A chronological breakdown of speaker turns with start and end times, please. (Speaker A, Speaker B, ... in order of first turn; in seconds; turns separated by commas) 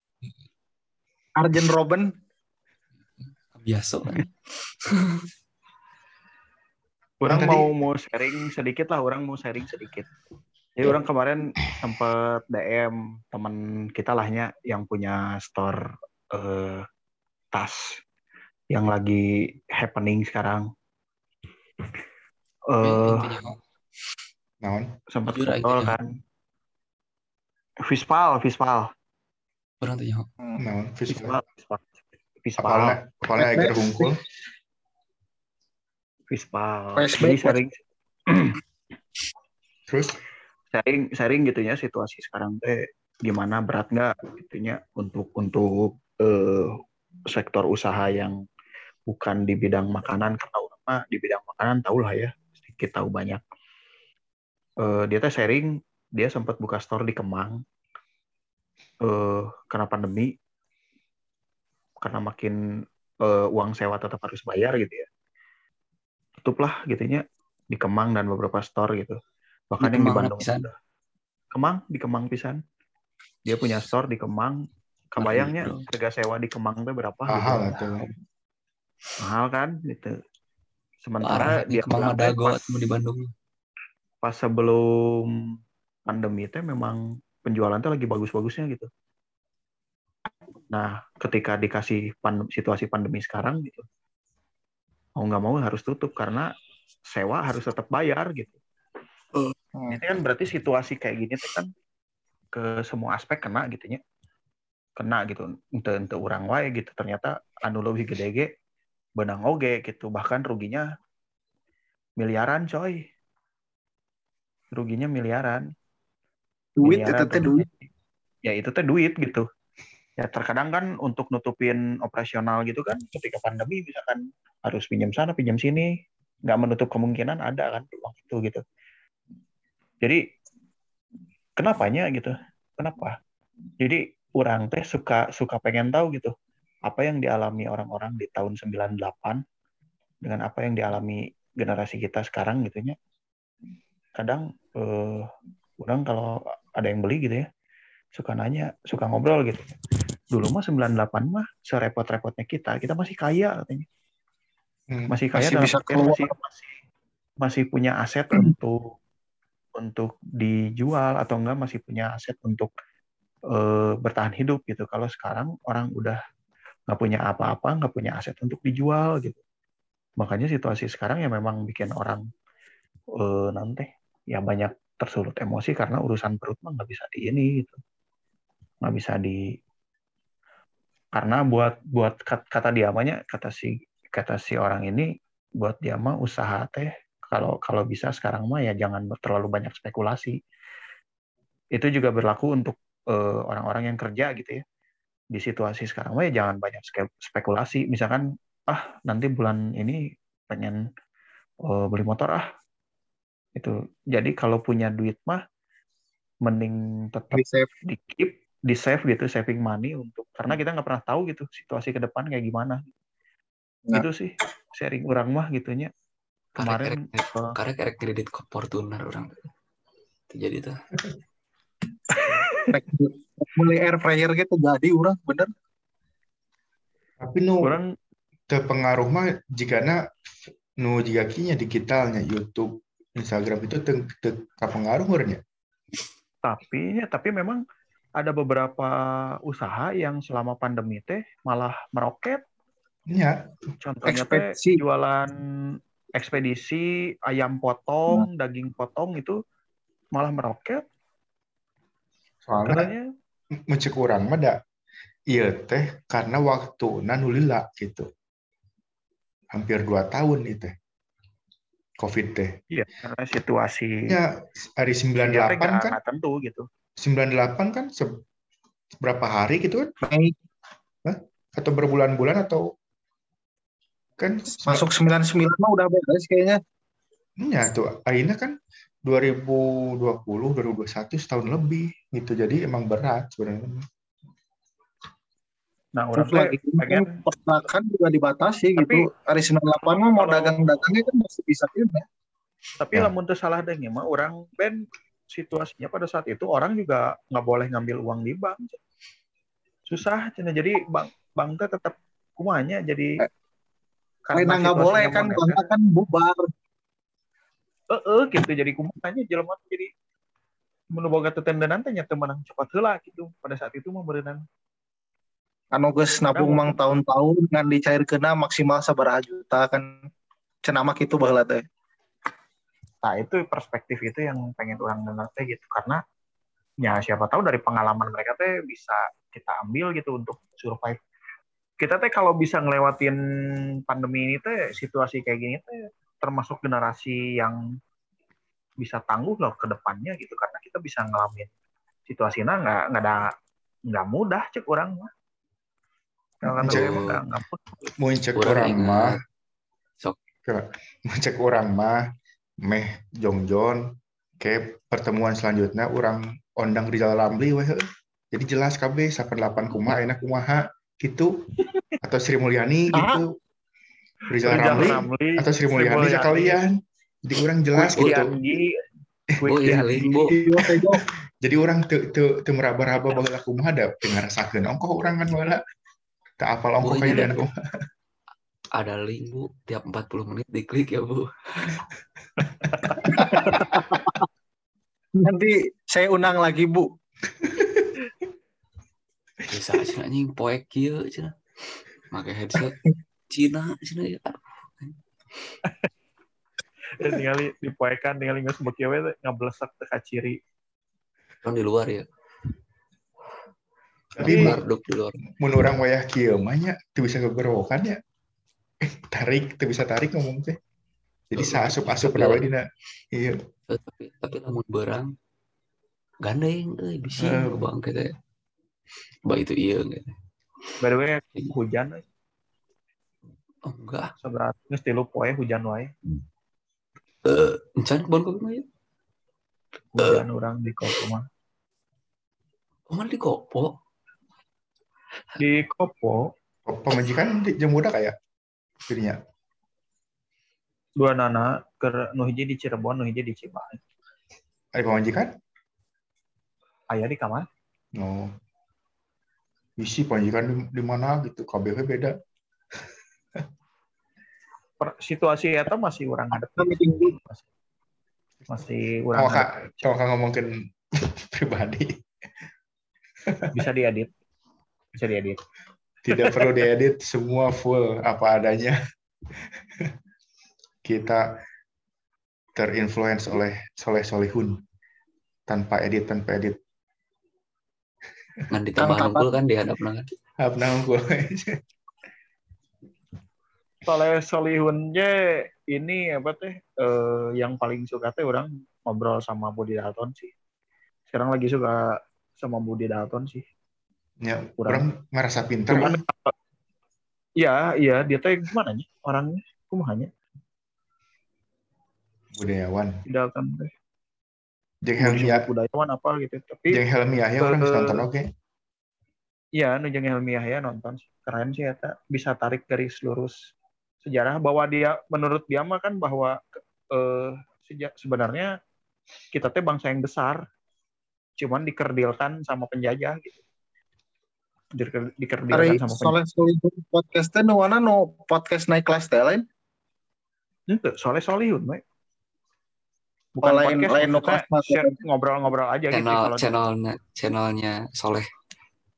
Speaker A: 1.4-2.1, Speaker B: 3.5-4.3, Speaker B: 4.8-5.2, Speaker C: 7.2-10.1, Speaker D: 7.3-7.6, Speaker C: 10.8-15.8, Speaker C: 16.3-16.8, Speaker C: 17.5-17.8, Speaker C: 18.7-19.2, Speaker C: 19.7-20.6, Speaker C: 22.7-23.3, Speaker B: 22.8-23.6, Speaker D: 24.6-24.9, Speaker C: 25.1-26.1, Speaker B: 25.3-25.9, Speaker C: 27.9-28.9, Speaker B: 29.8-30.2, Speaker D: 30.6-31.4, Speaker C: 31.1-31.9, Speaker C: 32.4-33.0, Speaker D: 32.6-34.2, Speaker A: 33.4-34.1, Speaker C: 36.3-37.8, Speaker A: 37.0-37.6, Speaker C: 38.3-38.5, Speaker D: 39.9-40.2, Speaker C: 40.7-46.7, Speaker C: 47.3-48.3, Speaker C: 49.1-53.4, Speaker C: 54.8-57.5, Speaker C: 59.0-60.3, Speaker C: 62.0-62.6, Speaker C: 63.2-65.0, Speaker C: 66.4-69.2, Speaker C: 69.7-70.7, Speaker B: 69.8-70.7, Speaker C: 71.5-72.6, Speaker C: 73.5-74.5, Speaker C: 75.1-78.0, Speaker B: 75.2-75.8, Speaker D: 77.3-78.1, Speaker C: 79.2-80.1, Speaker C: 81.0-82.7, Speaker B: 81.2-83.3, Speaker C: 84.2-85.2, Speaker C: 86.1-88.9, Speaker C: 90.7-93.8, Speaker C: 95.2-96.5, Speaker C: 97.1-98.6, Speaker A: 99.3-100.0, Speaker C: 99.9-101.7, Speaker C: 102.5-104.0, Speaker C: 105.0-108.5, Speaker C: 109.2-110.8, Speaker C: 112.2-113.0, Speaker C: 114.7-115.6, Speaker A: 116.8-117.7, Speaker C: 116.8-117.7, Speaker C: 118.4-119.4, Speaker C: 120.2-125.9, Speaker C: 126.5-128.6, Speaker C: 131.6-133.1, Speaker C: 133.8-136.3, Speaker C: 136.9-139.4, Speaker C: 140.2-142.9, Speaker C: 144.2-145.3, Speaker C: 145.8-147.4, Speaker C: 148.1-149.7, Speaker C: 150.3-153.8, Speaker D: 154.9-155.1, Speaker C: 155.1-156.8, Speaker A: 155.3-156.3, Speaker C: 157.4-158.8, Speaker C: 159.8-162.7, Speaker C: 163.5-166.2, Speaker C: 166.9-169.4, Speaker C: 170.2-172.2, Speaker C: 173.2-177.8, Speaker C: 178.8-179.4, Speaker C: 181.1-185.1, Speaker C: 185.6-190.3, Speaker C: 191.8-194.6, Speaker C: 195.3-200.0, Speaker C: 200.5-200.8, Speaker C: 201.7-202.4, Speaker C: 203.6-205.4, Speaker C: 206.4-212.8, Speaker A: 207.3-207.7, Speaker C: 213.9-215.9, Speaker C: 216.6-217.4, Speaker B: 216.6-219.3, Speaker B: 220.3-220.8, Speaker A: 222.7-225.5, Speaker D: 227.2-227.8, Speaker C: 227.6-227.9, Speaker D: 228.5-230.0, Speaker D: 230.8-235.4, Speaker C: 236.4-237.6, Speaker C: 238.2-238.9, Speaker C: 239.5-242.4, Speaker D: 243.1-243.4, Speaker C: 243.8-245.3, Speaker A: 244.0-244.8, Speaker C: 246.1-249.3, Speaker C: 250.1-250.8, Speaker D: 252.4-252.9, Speaker C: 252.7-253.0, Speaker D: 253.7-254.6, Speaker D: 255.3-258.1, Speaker D: 259.5-260.7, Speaker D: 262.0-262.5, Speaker C: 262.7-264.2, Speaker D: 264.1-266.0, Speaker C: 265.3-266.6, Speaker D: 267.0-268.2, Speaker D: 269.0-269.9, Speaker A: 270.0-270.3, Speaker D: 271.0-272.7, Speaker D: 274.2-274.9, Speaker A: 274.6-276.6, Speaker D: 277.4-283.8, Speaker C: 285.9-287.1, Speaker A: 286.2-292.0, Speaker C: 288.8-289.1, Speaker C: 289.8-290.8, Speaker C: 292.8-294.8, Speaker C: 295.3-298.8, Speaker C: 299.9-303.1, Speaker C: 304.2-305.7, Speaker A: 304.3-306.5, Speaker C: 307.9-309.9, Speaker C: 310.9-314.4, Speaker A: 315.7-320.0, Speaker C: 316.3-316.8, Speaker A: 320.6-321.6, Speaker C: 323.0-326.0, Speaker C: 326.8-331.0, Speaker C: 331.8-333.1, Speaker C: 333.9-337.6, Speaker C: 338.8-341.5, Speaker C: 342.1-343.3, Speaker C: 343.9-345.1, Speaker C: 346.4-347.6, Speaker B: 346.6-347.2, Speaker D: 346.6-347.0, Speaker D: 348.0-349.2, Speaker B: 348.4-349.2, Speaker D: 350.4-352.0, Speaker D: 352.6-353.9, Speaker D: 354.4-361.3, Speaker D: 362.0-363.2, Speaker A: 362.9-363.2, Speaker D: 364.3-368.4, Speaker C: 364.4-366.6, Speaker C: 367.8-368.7, Speaker B: 367.9-368.2, Speaker D: 369.3-370.7, Speaker C: 369.4-370.0, Speaker B: 369.5-370.4, Speaker A: 370.3-371.0, Speaker D: 371.4-375.6, Speaker D: 376.4-377.6, Speaker B: 376.8-377.4, Speaker B: 378.7-381.8, Speaker C: 382.6-383.6, Speaker A: 383.2-384.1, Speaker A: 385.2-386.9, Speaker D: 387.4-387.9, Speaker B: 389.5-391.3, Speaker B: 392.1-392.8, Speaker B: 393.3-394.9, Speaker C: 397.0-400.4, Speaker B: 401.4-402.1, Speaker D: 404.1-404.6, Speaker B: 404.1-405.2, Speaker C: 404.2-404.6, Speaker D: 405.4-408.0, Speaker D: 408.8-410.6, Speaker D: 411.3-413.4, Speaker B: 411.4-412.4, Speaker B: 413.7-415.1, Speaker B: 416.2-418.1, Speaker D: 417.2-417.7, Speaker B: 419.2-420.1, Speaker C: 420.8-422.0, Speaker B: 423.6-424.1, Speaker C: 424.2-425.9, Speaker B: 427.2-428.6, Speaker C: 429.9-431.2, Speaker B: 432.9-433.8, Speaker C: 435.4-436.2, Speaker D: 436.6-438.1, Speaker D: 438.9-439.2, Speaker C: 441.0-443.8, Speaker D: 444.7-445.3, Speaker C: 446.9-447.4, Speaker D: 447.9-448.3, Speaker D: 449.8-452.1, Speaker C: 454.8-457.4, Speaker A: 456.4-457.1, Speaker C: 458.5-459.9, Speaker D: 459.1-461.9, Speaker C: 463.5-464.1, Speaker C: 464.9-465.4, Speaker D: 466.1-468.8, Speaker D: 470.8-471.2, Speaker D: 472.5-474.6, Speaker D: 475.5-476.6, Speaker B: 478.5-480.1, Speaker A: 478.8-479.3, Speaker D: 480.4-481.6, Speaker C: 483.9-485.1, Speaker C: 485.7-490.3, Speaker C: 491.1-491.8, Speaker C: 492.4-493.4, Speaker D: 494.2-496.0, Speaker C: 495.7-496.3, Speaker C: 497.4-500.1, Speaker D: 502.3-502.9, Speaker C: 503.1-503.7, Speaker D: 504.8-505.4, Speaker C: 505.0-506.8, Speaker D: 506.7-508.2, Speaker C: 507.4-508.0, Speaker C: 509.6-513.3, Speaker C: 514.0-518.5, Speaker C: 519.3-520.4, Speaker C: 521.4-523.4, Speaker C: 524.7-526.1, Speaker A: 525.5-529.4, Speaker C: 530.7-531.8, Speaker C: 533.4-536.5, Speaker A: 533.4-535.0, Speaker B: 535.9-538.2